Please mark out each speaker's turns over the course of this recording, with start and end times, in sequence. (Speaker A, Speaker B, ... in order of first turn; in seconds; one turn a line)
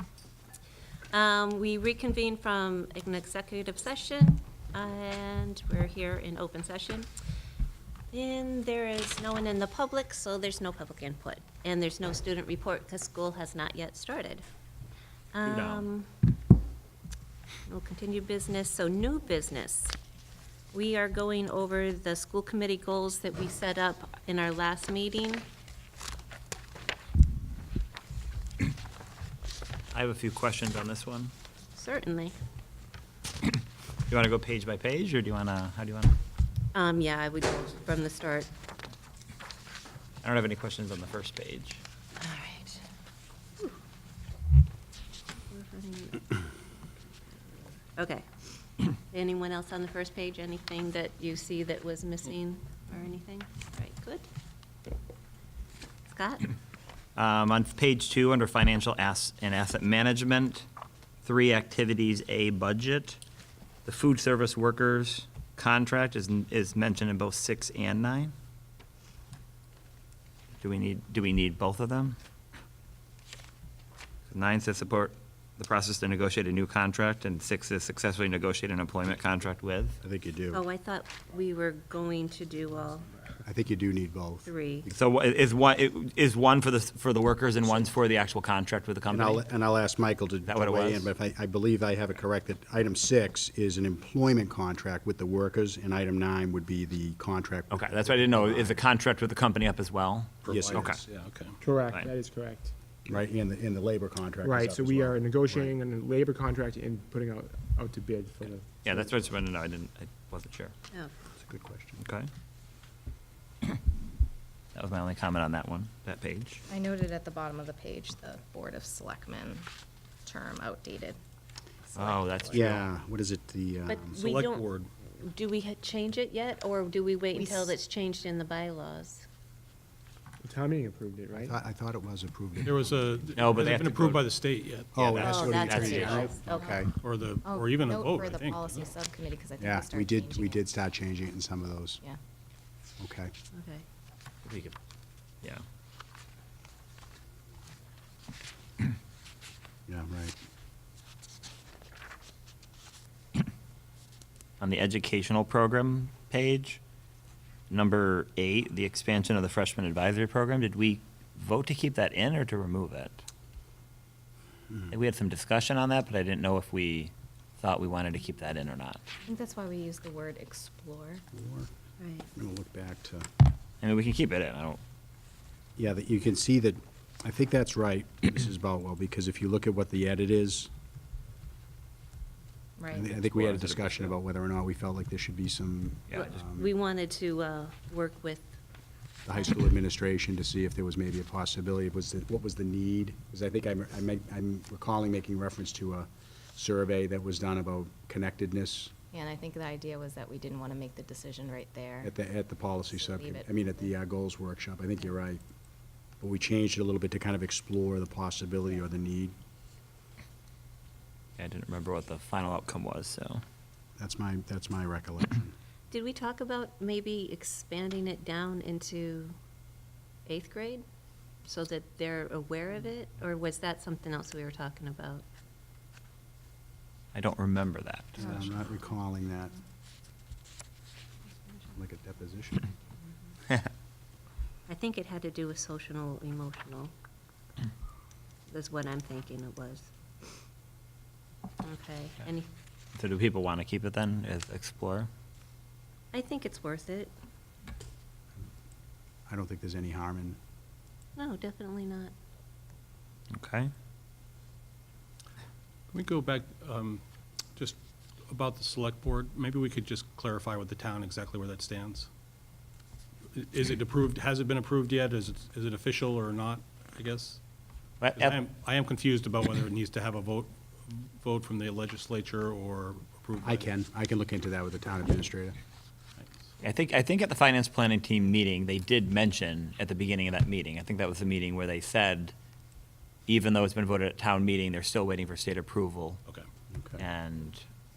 Speaker A: 1.1-7.1
Speaker A: 8.1-14.4
Speaker A: 15.3-16.1
Speaker B: 15.4-15.8
Speaker A: 17.6-19.9
Speaker A: 20.7-25.4
Speaker B: 29.9-31.3
Speaker A: 31.7-32.3
Speaker B: 34.1-36.2
Speaker A: 36.7-38.5
Speaker B: 40.2-41.8
Speaker A: 42.2-42.8
Speaker A: 45.5-46.4
Speaker A: 48.0-48.3
Speaker A: 48.9-54.3
Speaker A: 56.1-56.5
Speaker B: 57.1-60.6
Speaker B: 61.2-63.2
Speaker B: 63.8-68.3
Speaker B: 70.6-72.2
Speaker B: 74.3-80.0
Speaker C: 80.0-80.6
Speaker A: 80.5-83.1
Speaker C: 83.4-84.9
Speaker A: 84.5-84.9
Speaker B: 84.9-89.5
Speaker C: 89.1-98.8
Speaker B: 90.5-91.1
Speaker B: 97.7-101.0
Speaker D: 100.4-101.6
Speaker C: 100.5-101.0
Speaker E: 101.6-102.7
Speaker B: 101.9-102.1
Speaker C: 103.0-105.8
Speaker E: 104.4-108.7
Speaker B: 108.4-110.7
Speaker C: 111.4-112.0
Speaker B: 112.0-112.3
Speaker B: 114.7-116.6
Speaker F: 116.7-119.7
Speaker F: 120.2-121.2
Speaker F: 121.9-122.6
Speaker B: 121.9-122.8
Speaker C: 122.5-124.2
Speaker A: 123.9-129.2
Speaker D: 124.1-124.9
Speaker F: 127.3-127.7
Speaker E: 130.4-131.5
Speaker C: 131.4-133.0
Speaker D: 132.6-136.3
Speaker B: 133.3-134.3
Speaker C: 134.9-136.9
Speaker B: 135.0-136.3
Speaker A: 135.2-136.4
Speaker F: 136.4-136.9
Speaker D: 137.0-138.9
Speaker F: 137.4-140.6
Speaker C: 139.6-142.0
Speaker C: 143.0-143.3
Speaker A: 143.5-143.8
Speaker B: 144.4-144.7
Speaker C: 149.9-150.3
Speaker B: 154.6-156.8
Speaker B: 157.7-163.2
Speaker B: 164.9-169.0
Speaker F: 169.3-171.2
Speaker C: 171.3-171.7
Speaker A: 172.0-172.2
Speaker C: 172.3-173.3
Speaker B: 173.8-174.8
Speaker C: 175.8-180.7
Speaker F: 182.8-183.1
Speaker C: 182.9-186.7
Speaker B: 183.0-184.1
Speaker B: 186.1-186.4
Speaker A: 186.2-188.5
Speaker C: 189.2-198.9
Speaker F: 199.1-202.1
Speaker C: 202.0-205.4
Speaker F: 202.9-203.9
Speaker C: 206.2-209.3
Speaker B: 211.4-213.4
Speaker C: 214.0-215.5
Speaker A: 215.9-219.4
Speaker A: 220.2-220.8
Speaker A: 221.4-225.2
Speaker B: 227.1-228.5
Speaker C: 228.2-229.5
Speaker C: 231.7-232.7
Speaker A: 234.7-236.9
Speaker A: 238.5-239.9
Speaker A: 241.6-242.5
Speaker B: 242.9-245.1
Speaker A: 246.1-247.1
Speaker C: 249.3-250.4
Speaker A: 251.2-252.1
Speaker B: 253.3-253.7
Speaker D: 255.9-257.0
Speaker D: 257.6-262.1
Speaker D: 263.3-267.4
Speaker B: 268.0-268.4
Speaker D: 268.1-273.7
Speaker C: 273.4-275.6
Speaker D: 276.2-276.5
Speaker B: 276.6-282.3
Speaker B: 283.3-286.2
Speaker C: 286.7-287.0
Speaker B: 287.0-287.6